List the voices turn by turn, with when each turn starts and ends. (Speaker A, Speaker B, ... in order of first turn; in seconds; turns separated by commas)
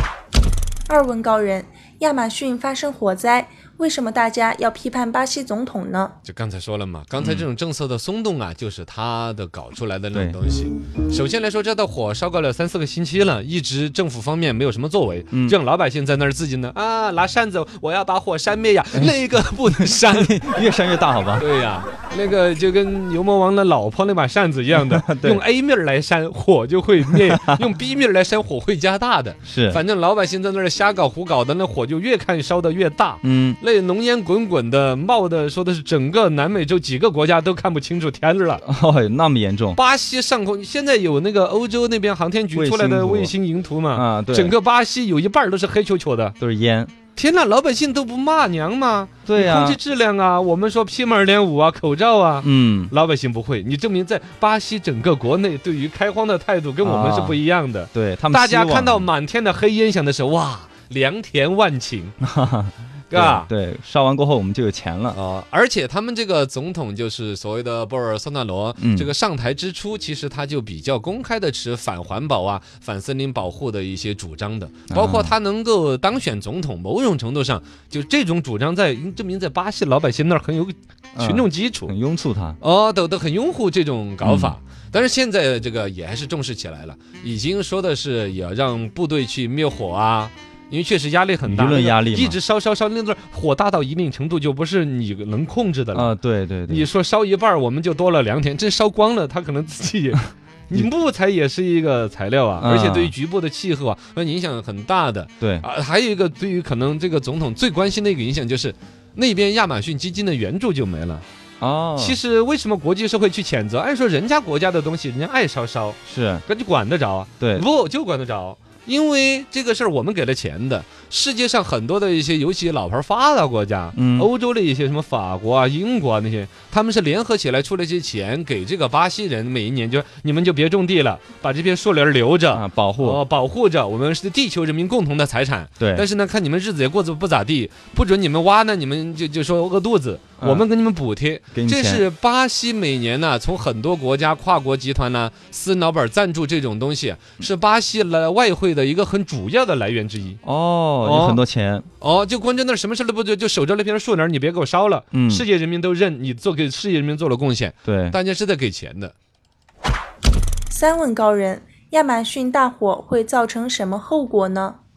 Speaker A: 0.9-6.2, Speaker B: 6.2-20.4, Speaker C: 7.2-7.5, Speaker C: 19.7-21.5, Speaker B: 21.4-38.6, Speaker C: 24.8-25.4, Speaker C: 27.1-27.6, Speaker C: 29.5-29.8, Speaker C: 33.2-33.6, Speaker C: 38.6-39.8, Speaker B: 39.8-46.4, Speaker C: 42.5-43.3, Speaker C: 43.9-44.5, Speaker C: 46.4-46.9, Speaker B: 47.2-62.2, Speaker C: 49.3-49.8, Speaker C: 52.4-52.9, Speaker C: 56.8-57.4, Speaker C: 57.9-59.1, Speaker C: 62.2-65.2, Speaker B: 63.1-63.5, Speaker B: 65.1-81.9, Speaker C: 68.8-69.1, Speaker C: 74.9-75.3, Speaker C: 81.2-82.6, Speaker B: 82.6-96.1, Speaker C: 84.2-84.5, Speaker C: 91.4-92.4, Speaker C: 95.9-96.9, Speaker B: 96.7-111.2, Speaker C: 102.6-103.1, Speaker C: 111.6-112.2, Speaker B: 112.0-150.4, Speaker C: 116.1-116.4, Speaker C: 123.9-124.3, Speaker C: 132.5-133.2, Speaker C: 135.8-136.1, Speaker C: 141.5-142.1, Speaker C: 150.4-151.9, Speaker B: 151.0-151.4, Speaker B: 152.0-159.1, Speaker C: 155.1-155.4, Speaker C: 157.8-158.2, Speaker A: 160.7-164.8